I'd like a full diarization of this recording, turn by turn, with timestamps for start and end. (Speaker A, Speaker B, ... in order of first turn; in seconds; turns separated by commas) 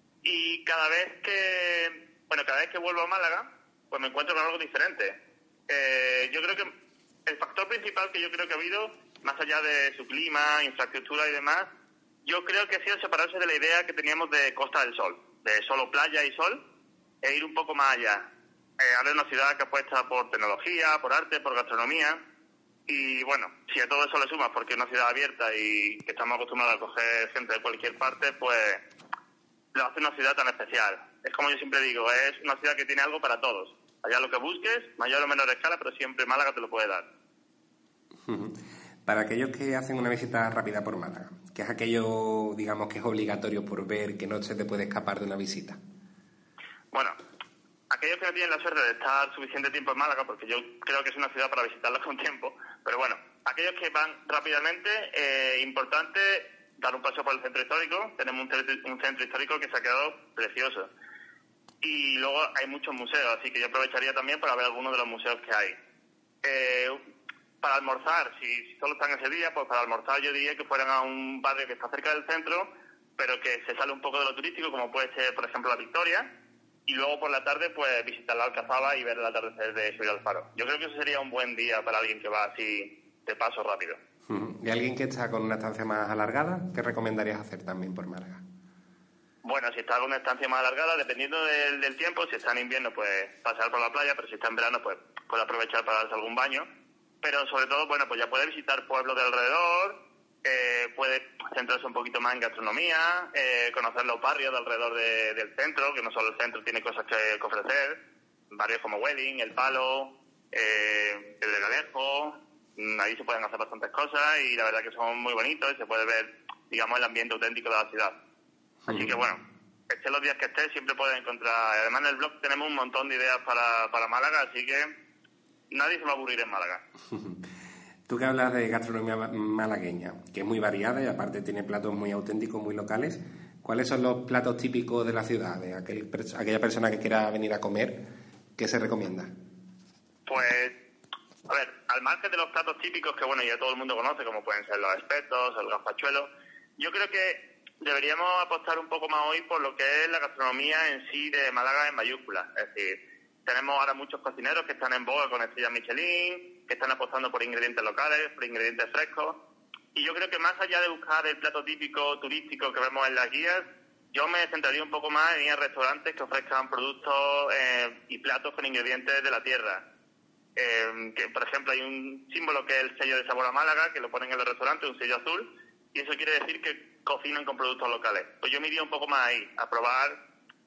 Speaker A: 0.2-6.7, Speaker A: 7.2-11.7, Speaker A: 12.2-16.6, Speaker A: 17.2-18.3, Speaker A: 18.8-22.2, Speaker A: 22.9-28.8, Speaker A: 29.7-37.0, Speaker B: 38.2-45.8, Speaker A: 46.9-47.2, Speaker A: 47.9-60.9, Speaker A: 61.8-65.8, Speaker A: 66.4-67.0, Speaker A: 67.6-76.3, Speaker A: 76.9-84.0, Speaker B: 84.3-88.4, Speaker A: 89.4-96.7, Speaker A: 97.2-108.0, Speaker A: 108.5-118.2, Speaker B: 118.9-119.2, Speaker A: 118.9-124.9, Speaker A: 125.7-126.8, Speaker B: 127.1-127.4, Speaker B: 128.1-139.3, Speaker A: 140.3-140.8, Speaker A: 141.5-159.4, Speaker A: 159.9-169.8, Speaker A: 170.6-180.2